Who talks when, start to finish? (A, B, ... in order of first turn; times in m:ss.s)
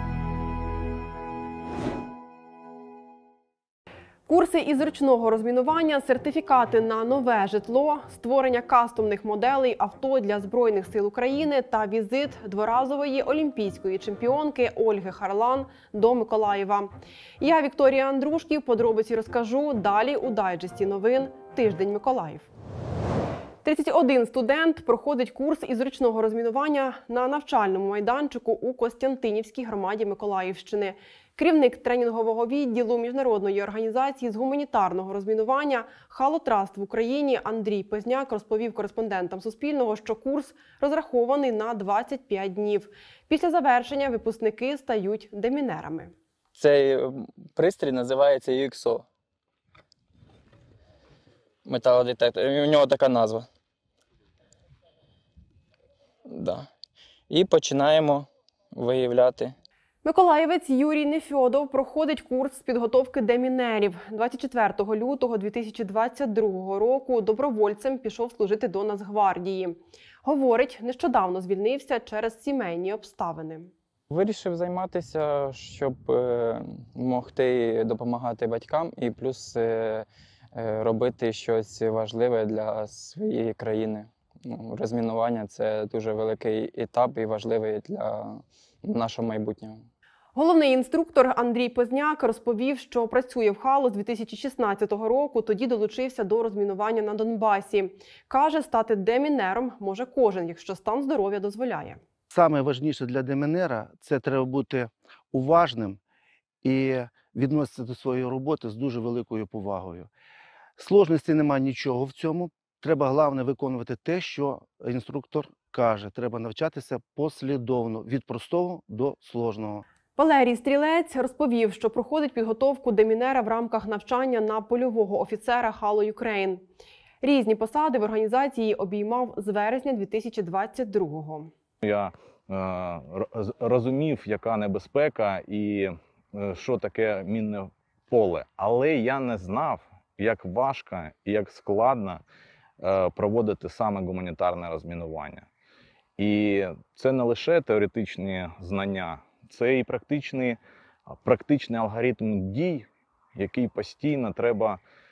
0:04.3-0:22.5 A
0:23.6-0:46.1 A
0:46.6-0:49.0 B
0:51.6-0:53.5 B
0:56.3-0:56.7 B
0:57.3-0:59.5 B
1:00.0-1:13.7 A
1:14.1-1:29.8 B
1:30.3-1:42.0 A
1:42.3-1:46.0 C
1:46.6-1:50.1 C
1:50.8-1:59.8 C
2:00.2-2:06.7 A
2:07.2-2:11.5 A
2:11.8-2:22.2 D
2:22.8-2:25.5 D
2:26.2-2:30.6 D
2:31.1-2:32.8 D
2:33.4-2:34.8 D